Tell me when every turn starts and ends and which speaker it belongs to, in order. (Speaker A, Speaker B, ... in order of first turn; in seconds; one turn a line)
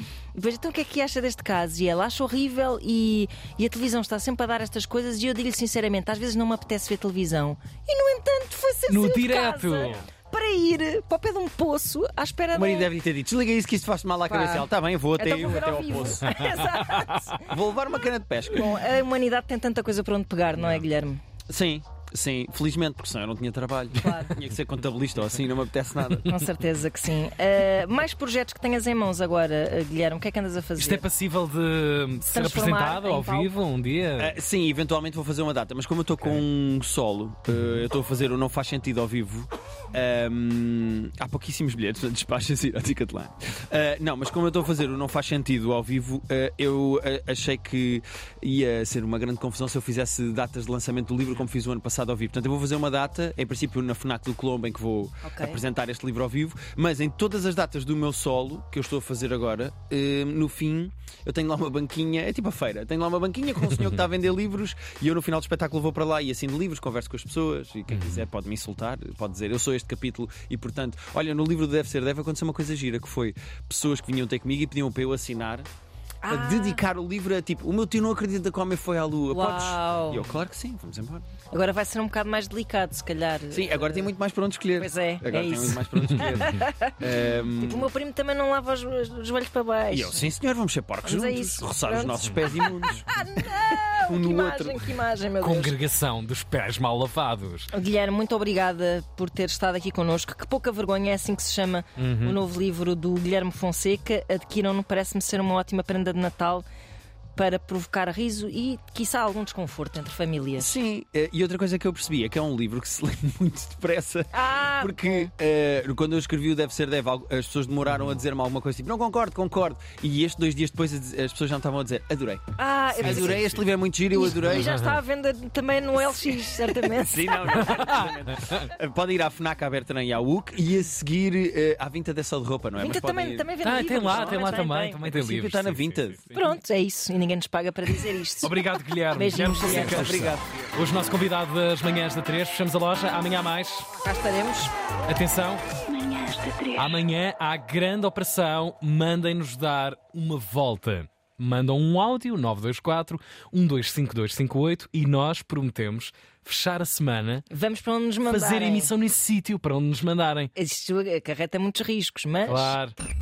Speaker A: 0.3-12.9
Speaker B: 8.9-10.1
Speaker C: 12.5-16.6
Speaker A: 14.3-17.6
Speaker B: 16.3-17.2
Speaker C: 17.4-18.7
Speaker A: 18.5-21.2
Speaker B: 20.6-20.8
Speaker C: 21.5-26.3
Speaker A: 24.0-24.4
Speaker A: 26.2-31.1
Speaker B: 30.8-34.3
Speaker A: 32.2-33.5
Speaker C: 34.2-75.7
Speaker A: 55.2-55.6
Speaker B: 67.9-68.2
Speaker A: 76.2-76.9
Speaker C: 76.3-81.2
Speaker A: 79.3-80.2
Speaker A: 81.5-84.1
Speaker C: 83.5-87.9
Speaker A: 84.8-90.3
Speaker C: 89.9-95.0
Speaker A: 91.0-95.8
Speaker B: 95.4-97.7
Speaker A: 97.7-106.7
Speaker B: 102.0-102.4
Speaker A: 107.4-110.8
Speaker C: 110.6-122.5
Speaker A: 114.3-115.3
Speaker A: 122.6-123.6
Speaker B: 122.9-123.6
Speaker C: 123.0-124.7
Speaker A: 124.1-127.8
Speaker B: 124.5-125.0
Speaker C: 126.8-133.5
Speaker B: 127.6-128.5
Speaker A: 132.8-135.0
Speaker B: 133.6-136.5
Speaker C: 135.0-136.2
Speaker A: 136.3-138.5
Speaker B: 138.4-143.9
Speaker A: 139.1-140.4
Speaker C: 139.6-140.4
Speaker A: 144.0-144.7
Speaker B: 145.1-145.6
Speaker A: 145.9-146.8
Speaker B: 146.8-157.5
Speaker A: 157.5-158.9
Speaker B: 158.2-160.5
Speaker A: 160.6-162.8
Speaker B: 162.5-163.0